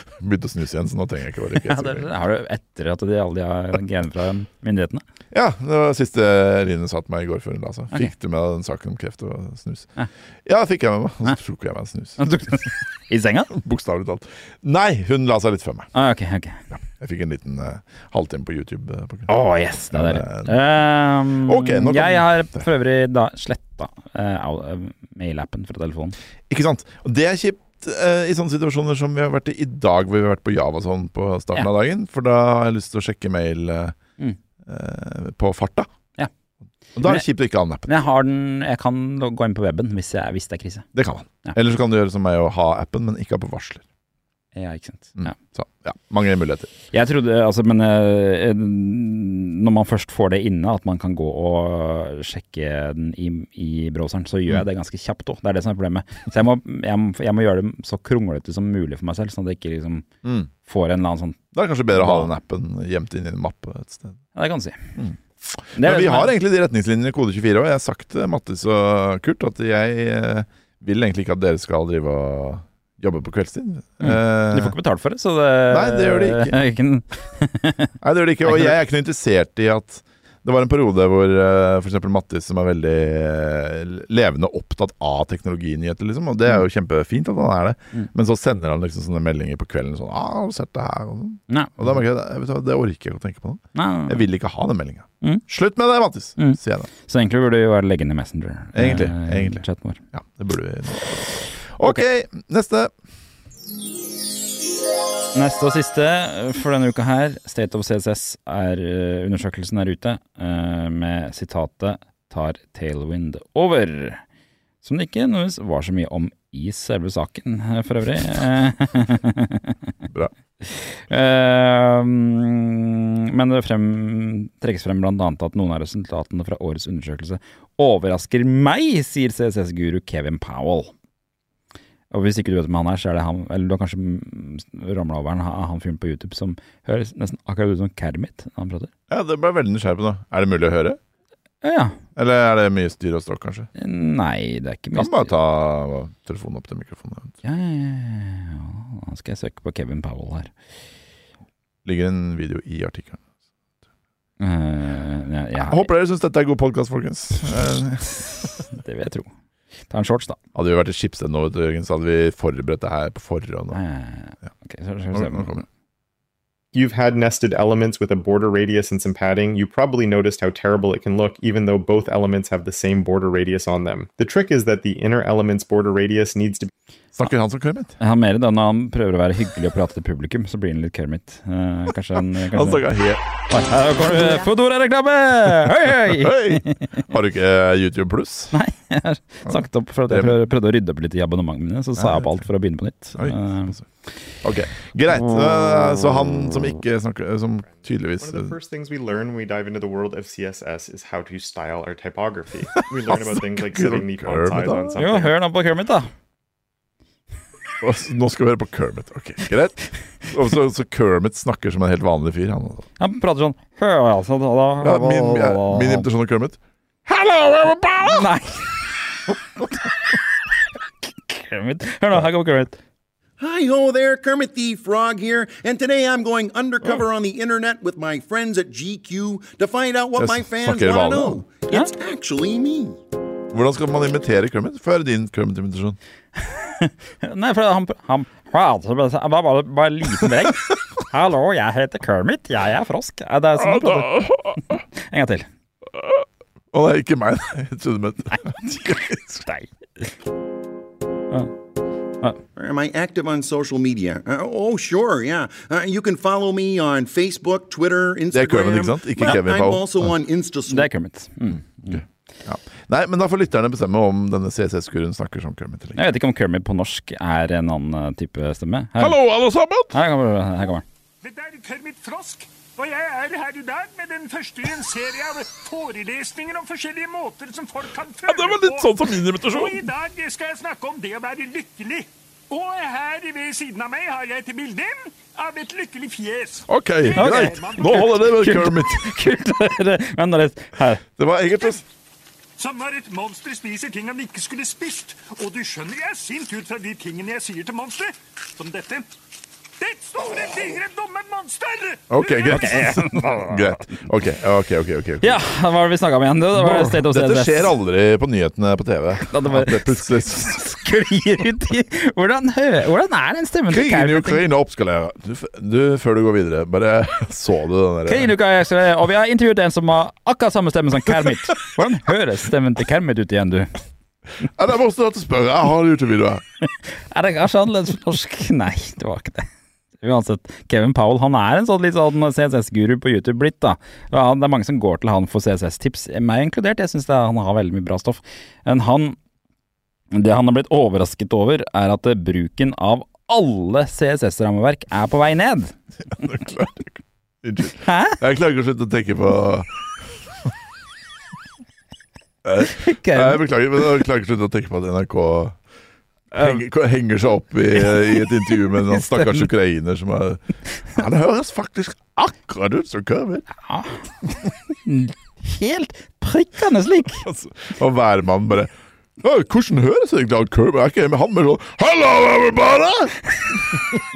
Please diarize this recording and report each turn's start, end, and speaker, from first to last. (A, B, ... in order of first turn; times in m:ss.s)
0:00.2-0:02.1 A
0:01.5-0:05.0 B
0:05.3-0:09.9 A
0:10.4-0:12.3 A
0:12.2-0:13.5 B
0:13.5-0:15.9 A
0:15.9-0:16.6 B
0:16.7-0:19.3 A
0:19.3-0:26.2 B
0:19.9-0:20.6 A
0:21.4-0:22.6 A
0:26.5-0:34.0 A
0:34.6-0:35.9 A
0:37.0-0:37.9 A
0:37.9-0:40.9 B
0:40.9-0:43.8 A
0:44.6-0:45.4 B
0:45.2-0:46.7 A
0:46.9-1:00.1 B
1:00.2-1:00.5 A
1:00.6-1:01.4 B
1:01.5-1:04.2 A
1:01.9-1:02.3 B
1:04.4-1:04.9 B
1:05.0-1:14.8 A
1:05.8-1:06.3 B
1:14.0-1:17.9 B
1:15.7-1:16.6 A
1:18.0-1:36.9 A
1:18.5-1:18.7 B
1:31.5-1:31.9 B
1:33.7-1:34.2 B
1:36.4-1:40.0 B
1:38.8-1:42.9 A
1:45.3-1:54.2 B
1:54.8-1:59.8 B
2:00.6-2:10.9 B
2:12.1-2:18.9 B
2:19.1-2:21.0 A
2:21.6-2:22.0 B
2:22.2-2:23.7 A
2:23.8-2:25.3 B
2:25.0-2:27.4 A
2:27.4-2:30.5 B
2:31.8-2:33.2 A
2:34.4-2:35.9 B
2:35.6-2:38.5 A
2:38.2-2:39.3 B
2:39.9-2:40.4 B
2:40.6-2:43.8 A
2:43.7-2:45.6 B
2:45.1-2:45.6 A
2:46.7-2:56.7 C
2:57.1-2:58.0 A
2:58.0-3:02.9 B
3:02.3-3:03.2 A
3:03.5-3:06.8 B
3:05.9-3:08.6 A
3:08.5-3:13.8 B
3:09.5-3:10.4 A
3:12.0-3:12.4 A
3:13.2-3:13.9 A
3:14.4-3:18.5 A
3:18.2-3:25.3 C
3:22.8-3:25.0 A
3:25.0-3:26.1 B
3:27.8-3:32.9 A
3:33.0-3:36.0 B
3:34.8-3:38.3 A
3:38.0-3:38.8 B
3:41.0-3:42.8 B
3:43.4-3:53.0 D
3:50.2-3:51.4 A
3:53.5-3:56.0 A
3:56.4-4:05.5 B
4:03.6-4:04.8 A
4:06.0-4:09.4 A
4:12.6-4:20.9 D
4:18.3-4:20.1 A
4:20.7-4:22.0 B
4:21.9-4:26.1 A
4:26.0-4:29.2 B
4:29.0-4:30.0 A
4:29.9-4:30.8 B
4:31.2-4:48.2 E
4:38.2-4:39.9 A
4:46.7-4:49.2 A
4:47.2-4:51.0 B
4:51.2-4:51.8 A
4:52.6-4:59.1 E
4:59.8-5:02.8 E
5:02.1-5:05.4 A
5:02.5-5:03.9 B
5:05.2-5:07.7 B
5:06.6-5:10.6 A
5:09.2-5:14.5 B
5:13.7-5:18.3 A
5:18.1-5:23.8 B
5:24.4-5:26.4 A
5:26.8-5:29.5 B
5:30.0-5:39.2 B
5:40.1-5:45.8 B
5:46.1-5:49.8 A
5:47.8-5:48.2 B
5:52.4-5:55.6 A
5:52.6-5:53.4 B
5:56.3-6:03.5 A
5:56.4-5:56.6 B
5:57.8-5:59.5 B
6:03.6-6:04.0 B
6:04.7-6:07.2 B
6:07.2-6:13.8 A